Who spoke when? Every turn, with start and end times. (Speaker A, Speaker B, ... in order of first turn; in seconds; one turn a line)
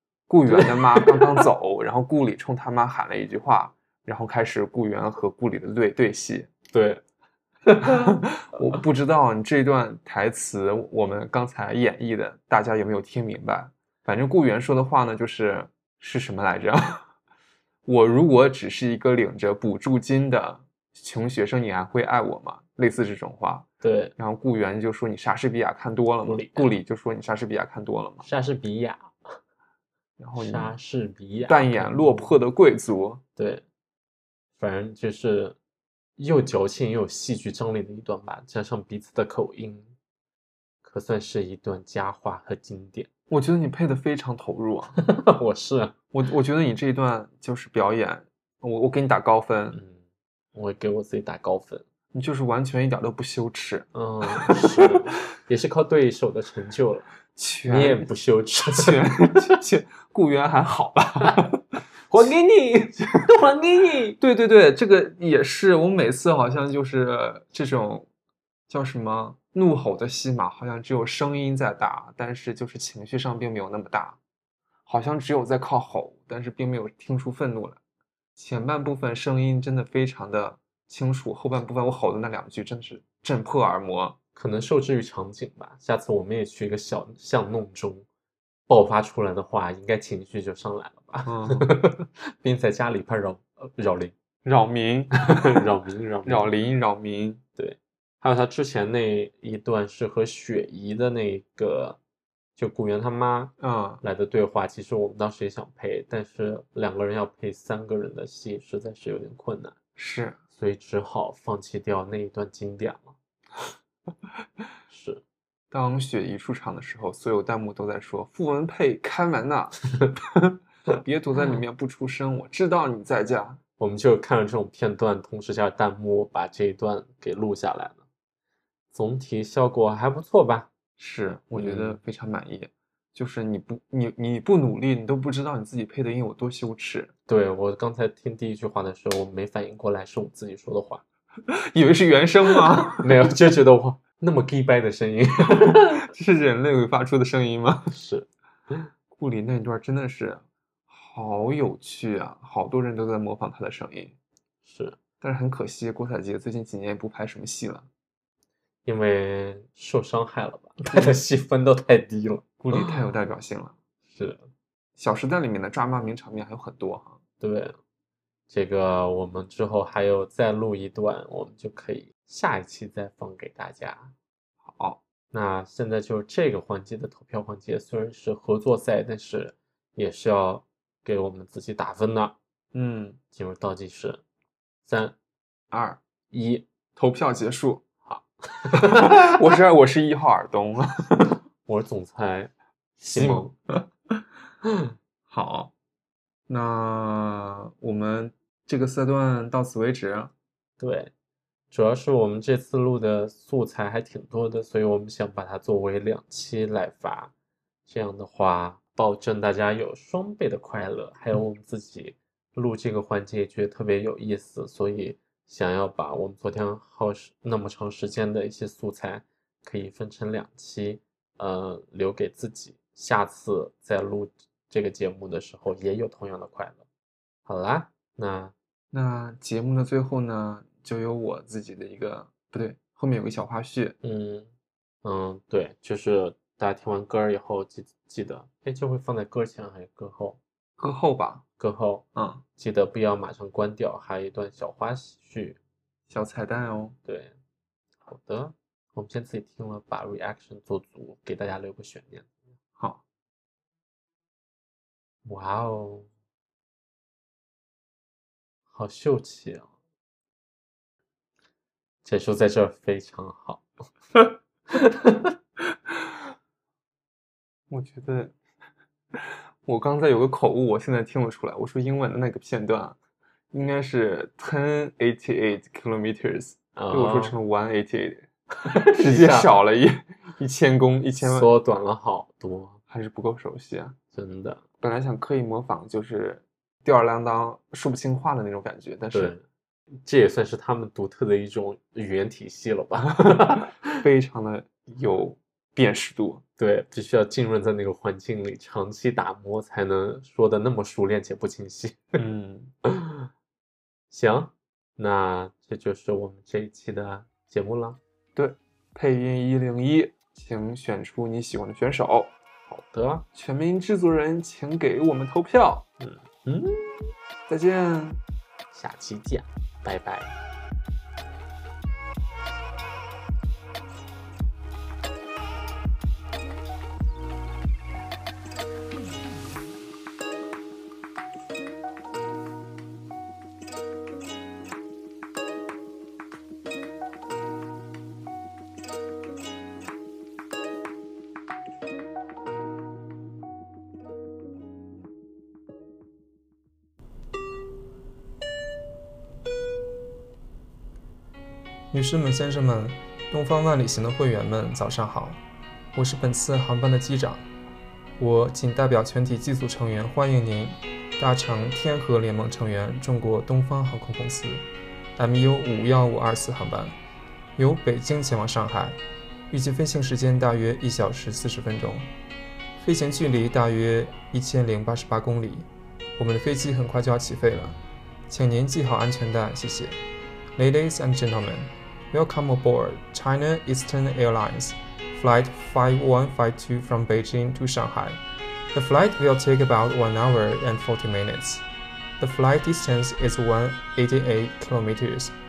Speaker A: 0.3-6.5
Speaker B: 0.6-1.2
Speaker B: 6.7-7.0
Speaker B: 7.7-8.1
Speaker A: 7.8-17.1
Speaker A: 17.9-28.2
Speaker B: 23.8-24.1
Speaker B: 26.2-26.7
Speaker B: 28.2-29.4
Speaker A: 30.2-30.7
Speaker B: 30.4-32.4
Speaker A: 31.5-33.2
Speaker B: 33.4-33.6
Speaker B: 34.6-35.6
Speaker B: 36.2-39.9
Speaker B: 40.8-43.1
Speaker A: 43.3-45.0
Speaker B: 45.0-45.9
Speaker A: 46.1-49.8
Speaker B: 49.7-50.0
Speaker B: 50.5-51.8
Speaker A: 52.1-54.9
Speaker B: 53.9-57.1
Speaker A: 57.4-58.1
Speaker B: 57.6-59.5
Speaker A: 58.7-61.6
Speaker B: 62.1-64.2
Speaker A: 64.2-68.1
Speaker A: 68.7-74.2
Speaker A: 74.8-77.8
Speaker A: 78.4-84.2
Speaker B: 84.3-88.0
Speaker B: 88.7-94.1
Speaker A: 91.2-91.7
Speaker A: 94.4-95.7
Speaker B: 95.2-96.5
Speaker A: 96.2-97.4
Speaker B: 97.6-102.0
Speaker B: 102.6-109.7
Speaker A: 103.6-104.0
Speaker A: 110.0-110.4
Speaker B: 110.5-113.1
Speaker B: 114.9-115.2
Speaker A: 115.7-119.9
Speaker A: 120.9-123.6
Speaker B: 123.8-128.0
Speaker B: 128.9-130.7
Speaker A: 131.0-137.1
Speaker B: 131.5-132.0
Speaker B: 137.3-141.0
Speaker A: 141.5-143.1
Speaker B: 142.9-146.0
Speaker A: 145.5-147.9
Speaker B: 147.9-148.3
Speaker A: 149.1-154.2
Speaker B: 154.6-155.0
Speaker A: 155.2-157.9
Speaker B: 158.8-163.0
Speaker A: 160.8-161.2
Speaker A: 162.6-163.8
Speaker B: 164.1-164.4
Speaker A: 165.0-167.2
Speaker B: 167.4-167.8
Speaker B: 168.5-174.1
Speaker A: 174.6-175.0
Speaker B: 175.3-182.3
Speaker A: 182.7-183.2
Speaker B: 183.3-184.2
Speaker B: 184.8-185.2
Speaker A: 185.7-186.0
Speaker B: 186.3-186.7
Speaker A: 186.9-187.8
Speaker B: 188.1-189.3
Speaker A: 188.7-191.4
Speaker B: 191.7-193.5
Speaker A: 193.1-193.8
Speaker A: 195.3-195.7
Speaker A: 196.5-200.3
Speaker B: 200.8-201.1
Speaker B: 201.7-207.3
Speaker B: 207.8-226.8
Speaker B: 227.4-228.5
Speaker A: 228.9-234.0
Speaker B: 234.0-234.5
Speaker B: 235.0-240.4
Speaker A: 240.8-241.4
Speaker B: 241.6-242.1
Speaker A: 242.1-242.4
Speaker B: 242.6-245.6
Speaker A: 246.1-247.0
Speaker B: 247.0-247.3
Speaker B: 248.0-252.3
Speaker B: 255.2-256.1
Speaker B: 258.7-259.7
Speaker B: 262.0-265.3
Speaker A: 267.7-268.4
Speaker A: 269.6-273.0
Speaker A: 273.5-281.5
Speaker B: 276.7-277.4
Speaker B: 278.7-279.5
Speaker B: 281.2-282.8
Speaker A: 282.9-284.0
Speaker B: 284.1-284.6
Speaker A: 284.8-289.3
Speaker B: 289.1-289.4
Speaker B: 290.0-293.7
Speaker A: 293.2-296.4
Speaker B: 296.6-302.2
Speaker A: 302.1-302.7
Speaker B: 302.9-303.3
Speaker B: 304.1-308.0
Speaker A: 308.3-312.4
Speaker B: 312.7-313.2
Speaker A: 313.3-315.9
Speaker B: 316.0-317.1
Speaker A: 317.5-318.2
Speaker B: 318.7-320.3
Speaker C: 351.9-355.4
Speaker C: 355.9-357.4
Speaker C: 358.2-364.6
Speaker C: 365.2-366.9
Speaker C: 367.6-369.0
Speaker C: 369.5-372.1
Speaker C: 372.8-380.0
Speaker C: 380.6-388.2
Speaker C: 388.7-391.6
Speaker C: 392.2-395.3